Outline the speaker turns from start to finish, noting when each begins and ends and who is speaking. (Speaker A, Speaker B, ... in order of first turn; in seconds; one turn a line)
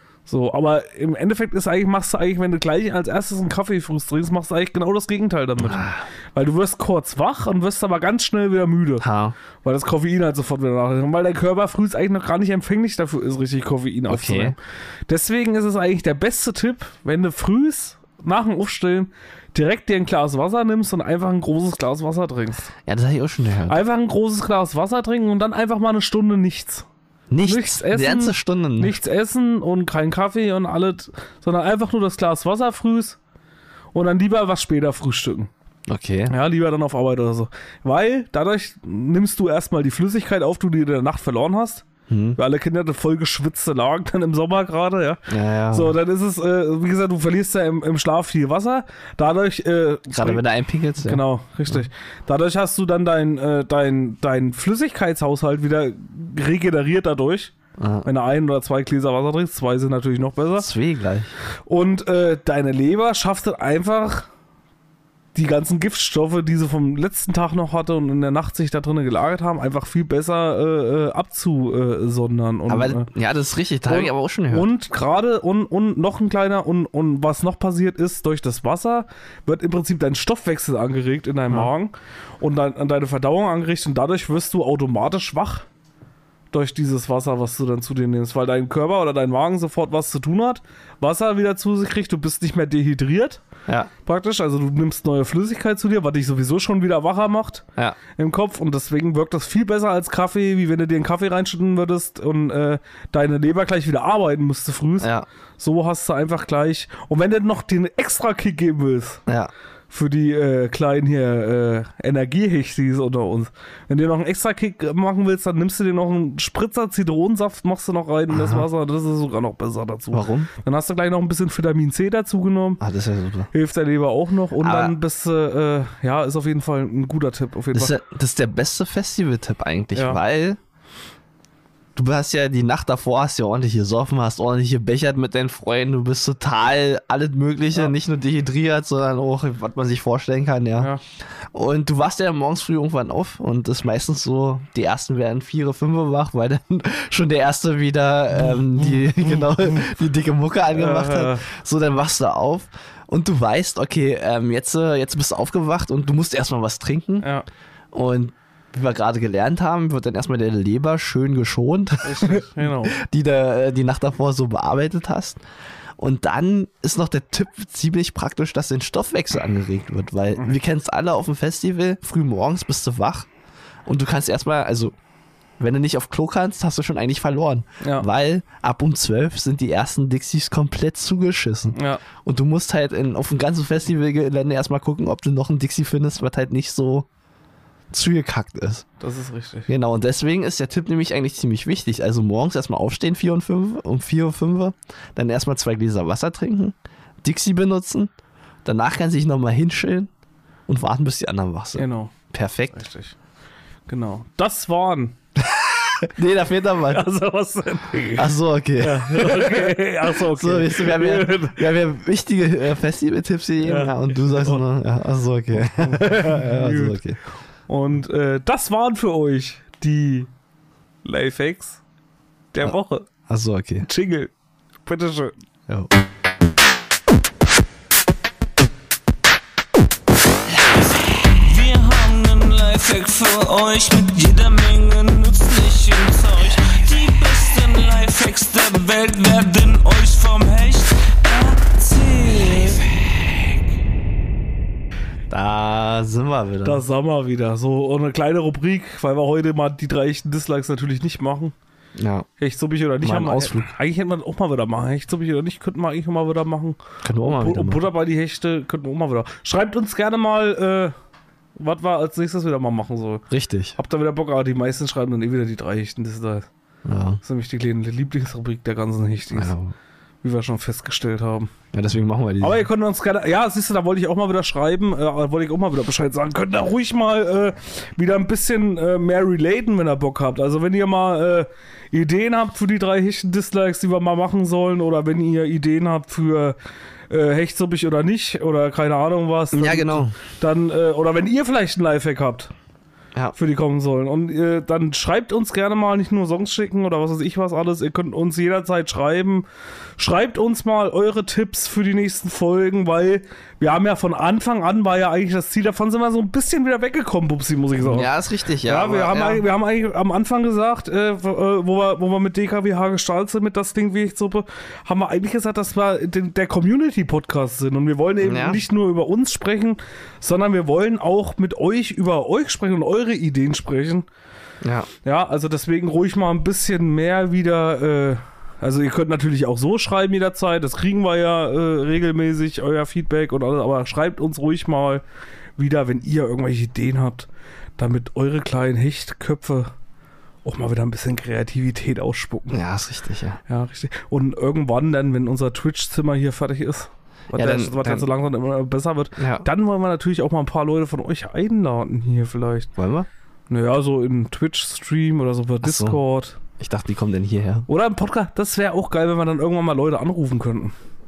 Speaker A: 0.3-9.0
Speaker B: 5.6-6.0
Speaker B: 9.0-9.3
Speaker A: 9.6-14.6
Speaker B: 14.1-14.5
Speaker A: 15.1-22.7
Speaker B: 22.9-23.8
Speaker A: 23.7-26.9
Speaker B: 27.3-28.9
Speaker A: 27.4-33.2
Speaker A: 33.9-35.5
Speaker B: 35.9-36.3
Speaker A: 36.3-41.8
Speaker B: 42.1-42.4
Speaker A: 42.4-50.4
Speaker B: 45.3-46.0
Speaker B: 50.1-51.8
Speaker A: 51.0-57.5
Speaker B: 57.8-58.1
Speaker A: 58.0-60.7
Speaker B: 60.6-61.3
Speaker A: 61.6-64.3
Speaker A: 65.3-73.1
Speaker B: 72.7-74.7
Speaker A: 73.9-85.7
Speaker A: 86.5-93.4
Speaker A: 94.0-97.6
Speaker A: 98.2-109.2
Speaker B: 105.0-105.2
Speaker A: 109.9-122.8
Speaker B: 118.3-118.7
Speaker B: 120.1-120.5
Speaker B: 122.8-123.5
Speaker A: 123.5-127.9
Speaker B: 124.6-125.0
Speaker B: 127.7-130.6
Speaker A: 129.9-130.2
Speaker B: 131.9-140.9
Speaker B: 141.5-157.3
Speaker A: 148.4-149.9
Speaker A: 150.7-151.5
Speaker A: 157.2-157.4
Speaker B: 157.9-165.4
Speaker A: 162.0-163.0
Speaker B: 166.0-173.3
Speaker B: 173.8-174.9
Speaker B: 175.6-187.1
Speaker A: 177.8-178.1
Speaker A: 181.7-182.0
Speaker B: 187.9-188.8
Speaker A: 189.0-189.7
Speaker B: 189.7-198.1
Speaker B: 198.6-200.1
Speaker B: 200.7-202.8
Speaker A: 201.8-202.1
Speaker A: 202.7-203.2
Speaker A: 203.9-205.2
Speaker B: 205.4-207.1
Speaker A: 206.9-208.3
Speaker B: 208.2-217.2
Speaker A: 208.8-211.6
Speaker A: 213.6-214.6
Speaker A: 215.6-217.0
Speaker A: 217.7-220.3
Speaker A: 221.0-221.8
Speaker A: 222.5-223.1
Speaker B: 223.3-223.9
Speaker A: 223.8-224.3
Speaker A: 224.8-225.3
Speaker C: 230.5-242.9
Speaker B: 245.3-246.8
Speaker A: 246.6-251.5
Speaker B: 251.9-252.3
Speaker A: 252.4-260.9
Speaker B: 253.0-253.7
Speaker B: 257.0-257.9
Speaker A: 261.6-263.2
Speaker B: 263.3-263.8
Speaker A: 263.8-266.5
Speaker B: 266.9-267.2
Speaker A: 267.2-269.5
Speaker B: 269.3-269.7
Speaker A: 270.2-271.5
Speaker B: 271.7-272.6
Speaker A: 272.4-286.6
Speaker A: 287.1-292.5
Speaker B: 289.5-290.1
Speaker A: 293.3-299.4
Speaker A: 300.0-308.1
Speaker B: 307.8-309.4
Speaker A: 308.6-324.1
Speaker B: 318.2-318.6
Speaker B: 324.6-324.9
Speaker A: 325.0-335.0
Speaker A: 335.6-339.7
Speaker A: 340.4-342.6
Speaker B: 342.5-343.4
Speaker A: 343.5-352.7
Speaker B: 347.3-348.1
Speaker B: 349.2-349.4
Speaker B: 352.8-353.1
Speaker A: 353.5-356.4
Speaker B: 355.6-356.0
Speaker B: 356.6-357.7
Speaker A: 357.7-360.7